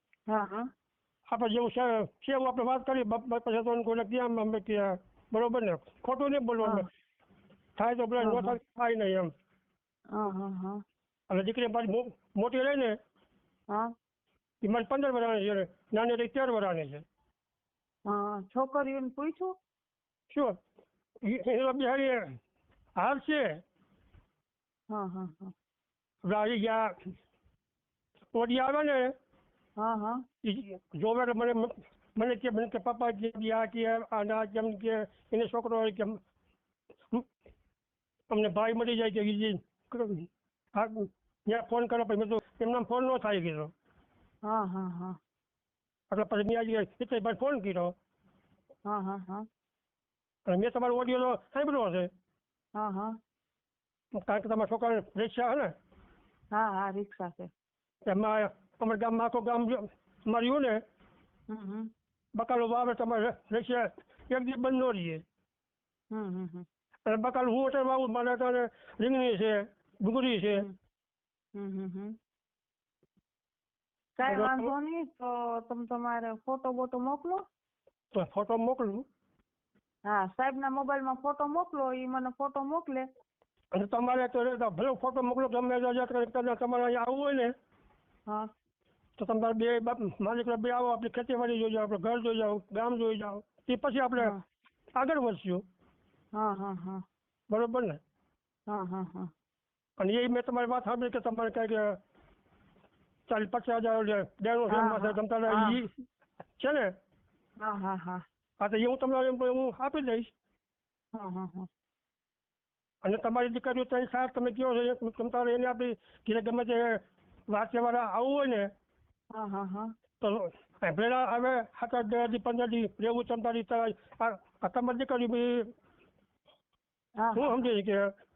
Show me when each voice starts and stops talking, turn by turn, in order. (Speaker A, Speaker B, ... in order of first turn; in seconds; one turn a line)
Speaker A: 0.3-0.7
Speaker B: 1.3-6.8
Speaker B: 7.8-9.3
Speaker A: 8.2-8.6
Speaker A: 10.1-10.8
Speaker B: 11.3-12.9
Speaker B: 14.6-17.0
Speaker A: 18.1-19.6
Speaker B: 20.3-20.6
Speaker B: 21.2-22.4
Speaker B: 23.0-23.6
Speaker A: 24.9-25.5
Speaker B: 26.2-26.9
Speaker B: 28.3-29.1
Speaker A: 29.8-30.2
Speaker B: 30.4-36.2
Speaker B: 38.3-43.7
Speaker A: 44.4-45.2
Speaker B: 46.1-47.9
Speaker A: 48.8-49.5
Speaker B: 50.5-52.1
Speaker A: 52.8-53.1
Speaker B: 54.1-55.7
Speaker A: 56.5-57.5
Speaker B: 58.1-60.8
Speaker A: 61.5-61.9
Speaker B: 62.4-65.2
Speaker A: 66.1-66.7
Speaker B: 67.1-70.7
Speaker A: 71.5-72.2
Speaker A: 74.2-77.4
Speaker B: 74.3-74.7
Speaker B: 78.1-79.0
Speaker A: 80.0-83.1
Speaker B: 83.7-87.5
Speaker B: 89.2-94.3
Speaker B: 95.0-95.6
Speaker A: 96.3-97.0
Speaker B: 97.5-98.0
Speaker A: 98.7-99.3
Speaker B: 100.0-102.0
Speaker B: 103.3-105.9
Speaker A: 104.7-105.8
Speaker B: 106.6-106.9
Speaker A: 107.6-108.2
Speaker B: 108.6-110.3
Speaker A: 111.1-111.7
Speaker B: 113.0-118.7
Speaker A: 119.3-119.9
Speaker B: 120.2-125.6
Speaker A: 127.2-127.7
Speaker B: 127.3-128.0